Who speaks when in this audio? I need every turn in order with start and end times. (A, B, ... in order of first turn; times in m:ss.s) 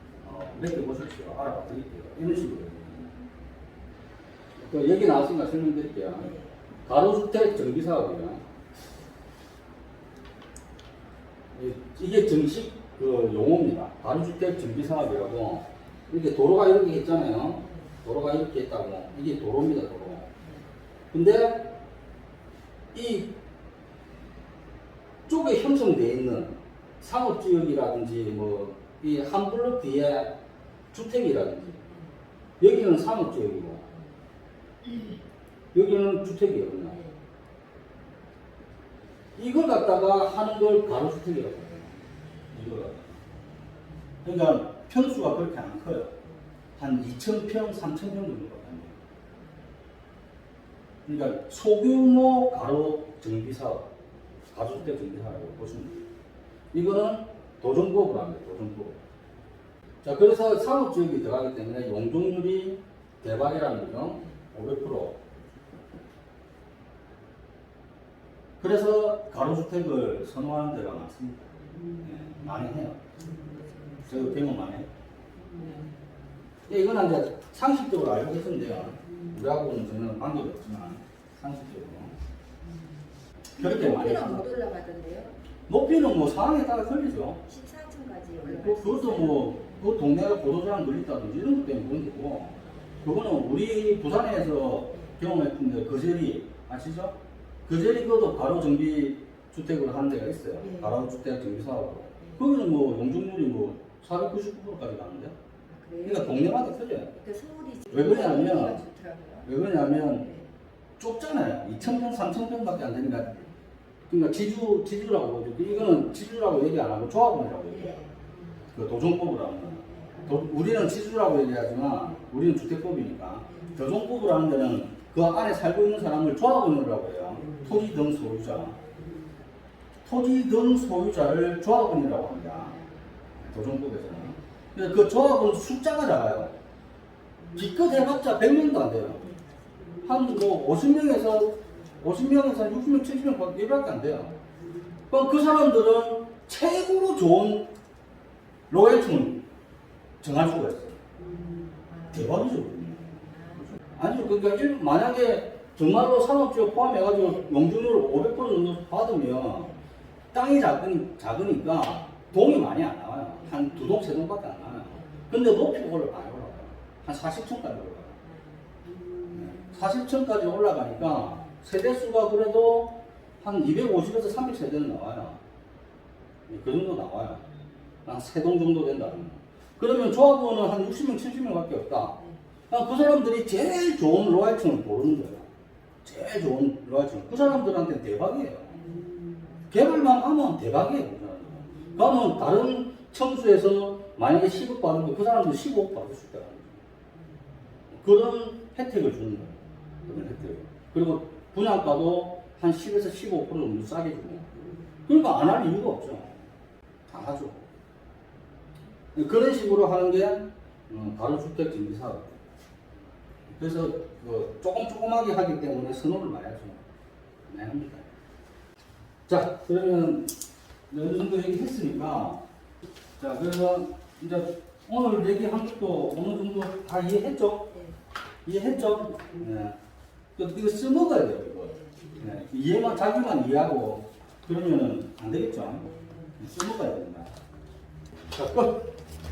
0:00.2-0:03.1 A
0:04.6-0:08.4 A
0:11.5-0:20.3 A
0:21.1-0:21.8 A
0:22.9-0:23.3 A
0:25.3-0:30.4 A
0:30.9-0:31.8 A
0:32.6-0:33.8 A
0:35.7-0:37.0 A
0:39.4-0:42.0 A
0:42.5-0:43.2 A
0:44.2-0:46.1 A
0:46.8-0:49.0 A
0:51.0-0:53.9 A
0:54.5-0:56.0 A
0:56.7-0:59.0 A
1:00.0-1:05.2 A
1:08.6-1:13.0 A
1:11.7-1:12.0 B
1:13.2-1:14.2 B
1:14.1-1:14.9 A
1:15.4-1:16.0 B
1:16.7-1:22.2 A
1:22.6-1:23.0 B
1:23.6-1:24.4 A
1:23.6-1:25.4 B
1:25.7-1:27.4 A
1:27.4-1:29.6 B
1:28.5-1:37.1 A
1:37.7-1:45.4 A
1:40.6-1:40.9 B
1:45.7-1:46.5 B
1:46.0-1:47.1 A
1:47.1-1:49.5 B
1:47.9-1:48.8 A
1:49.4-1:50.3 A
1:50.2-1:50.5 B
1:51.0-1:53.4 A
1:54.1-1:58.0 A
1:57.7-1:58.3 B
1:58.7-2:08.8 A
1:59.9-2:00.4 B
2:03.5-2:03.7 B
2:08.8-2:09.3 B
2:10.0-2:12.8 A
2:13.4-2:16.6 A
2:17.4-2:17.9 B
2:17.5-2:19.3 A
2:19.2-2:20.0 B
2:20.0-2:24.4 A
2:25.1-2:27.7 A
2:28.7-2:29.4 A
2:30.2-2:31.0 A
2:31.2-2:32.1 B
2:32.1-2:39.7 A
2:33.2-2:33.6 B
2:40.3-2:48.2 A
2:48.2-2:49.7 B
2:49.3-2:55.4 A
2:56.5-2:57.5 A
2:58.0-3:02.2 A
3:02.7-3:05.5 A
3:06.0-3:08.8 A
3:08.8-3:09.6 B
3:09.7-3:16.8 A
3:17.9-3:26.4 A
3:27.1-3:27.7 A
3:29.1-3:32.4 A
3:33.5-3:36.8 A
3:37.5-3:38.1 A
3:39.3-3:42.4 A
3:43.2-3:47.7 A
3:48.4-3:49.8 A
3:50.4-3:57.3 A
3:51.8-3:52.1 B
3:56.0-3:56.2 B
3:58.3-3:58.8 A